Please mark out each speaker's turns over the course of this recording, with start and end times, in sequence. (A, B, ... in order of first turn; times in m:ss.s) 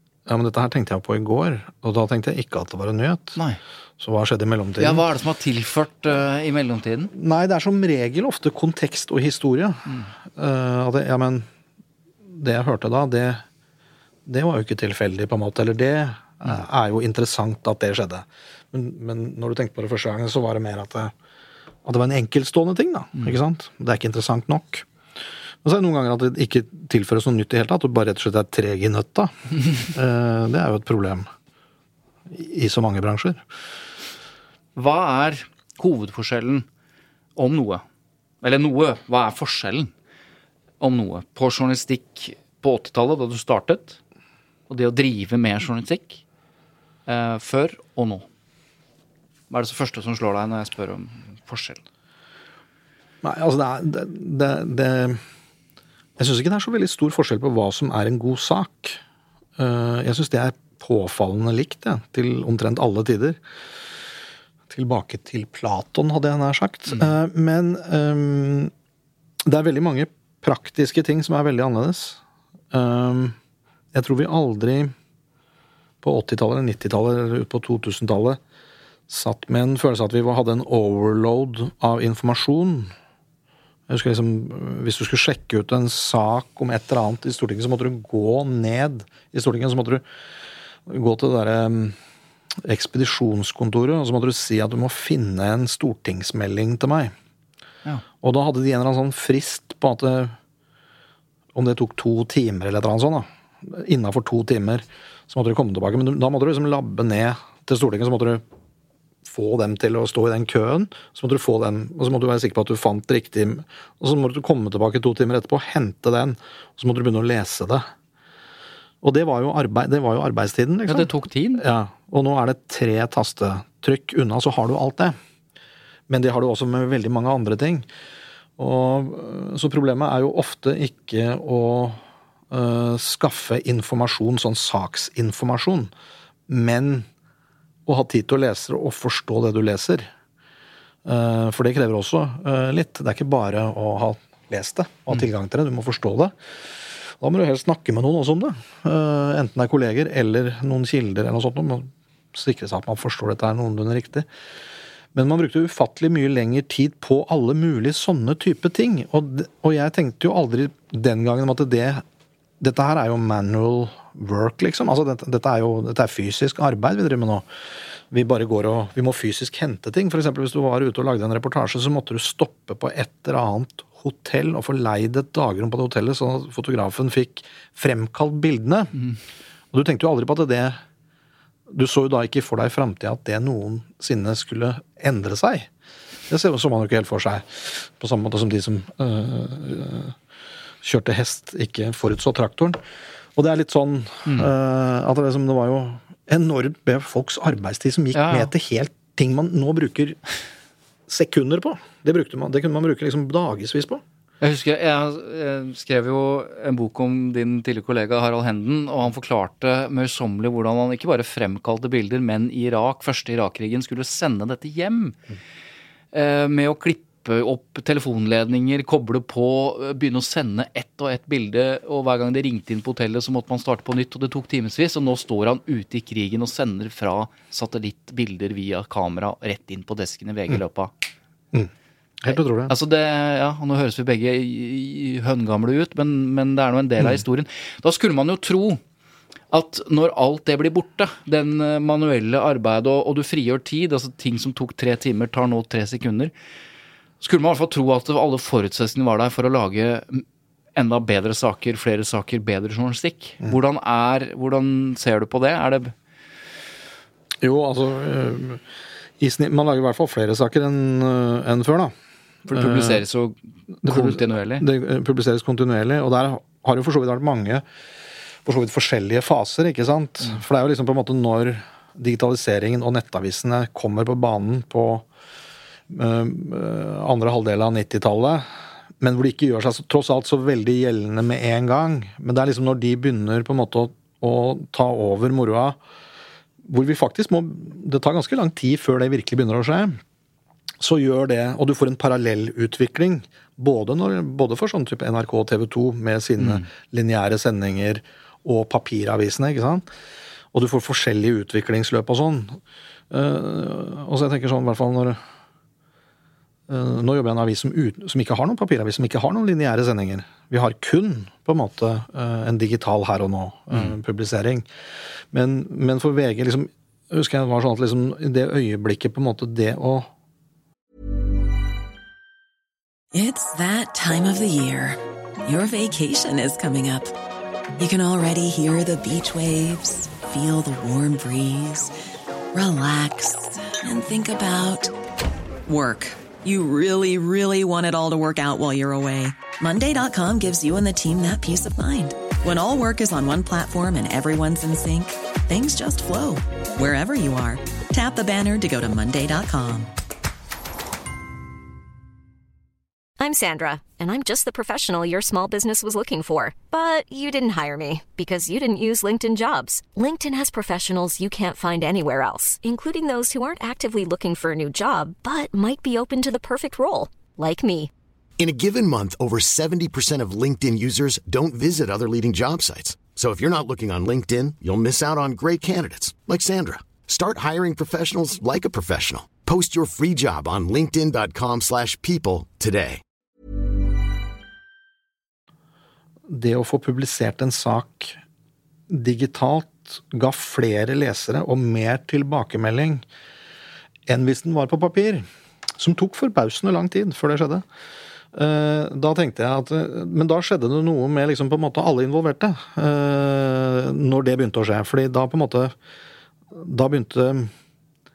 0:00.2-0:03.4 A
0:04.0-0:05.0 A
0:04.8-0:07.1 B
0:07.1-0:11.5 A
0:12.3-0:13.4 A
0:14.2-0:21.1 A
0:21.8-0:24.9 A
0:25.6-0:31.3 A
0:32.3-0:33.4 A
0:34.8-0:36.6 B
0:37.4-0:37.8 B
0:38.4-0:39.9 B
0:40.8-0:44.0 B
0:44.7-0:46.2 B
0:47.0-0:48.2 B
0:49.5-0:51.8 B
0:53.2-0:55.2 A
0:56.2-0:59.0 A
0:59.6-1:03.4 A
1:04.7-1:08.7 A
1:06.9-1:07.1 B
1:09.4-1:12.2 A
1:12.7-1:13.4 A
1:13.9-1:14.9 A
1:16.0-1:18.4 A
1:19.1-1:22.9 A
1:23.9-1:30.0 A
1:30.8-1:32.0 A
1:32.6-1:37.1 A
1:38.2-1:40.4 A
1:41.5-1:48.4 A
1:49.2-1:57.9 A
1:59.0-2:05.2 A
2:00.9-2:01.6 B
2:06.1-2:07.9 A
2:08.6-2:15.9 A
2:16.5-2:17.1 A
2:17.8-2:20.1 A
2:21.0-2:26.3 A
2:27.2-2:34.3 A
2:35.1-2:42.0 A
2:42.6-2:47.5 A
2:48.1-2:58.9 A
2:59.7-3:00.8 A
3:01.7-3:05.7 A
3:06.3-3:10.2 A
3:10.8-3:12.8 A
3:13.4-3:20.2 A
3:18.1-3:18.5 B
3:21.1-3:24.0 A
3:24.4-3:35.2 B
3:36.1-3:50.9 B
3:51.5-3:52.7 A
3:52.3-3:58.8 B
3:59.5-4:06.3 B
4:07.2-4:10.2 B
4:10.8-4:15.9 B
4:17.4-4:18.6 A
4:19.2-4:21.9 A
4:22.4-4:23.0 A
4:22.5-4:24.6 B
4:23.8-4:27.6 A
4:28.4-4:35.0 A
4:35.9-4:45.8 A
4:46.6-4:50.0 A
4:50.8-4:59.8 A
4:56.4-4:56.7 B
5:00.5-5:05.2 A
5:06.7-5:14.7 A
5:15.3-5:20.1 A
5:23.1-5:27.1 C
5:27.8-5:31.9 C
5:32.5-5:34.9 C
5:35.6-5:49.9 C
5:53.2-6:07.9 D
6:08.4-6:23.0 E
6:26.3-6:28.2 A
6:28.9-6:33.0 A
6:34.1-6:37.6 A
6:38.3-6:45.7 A
6:46.5-6:47.5 A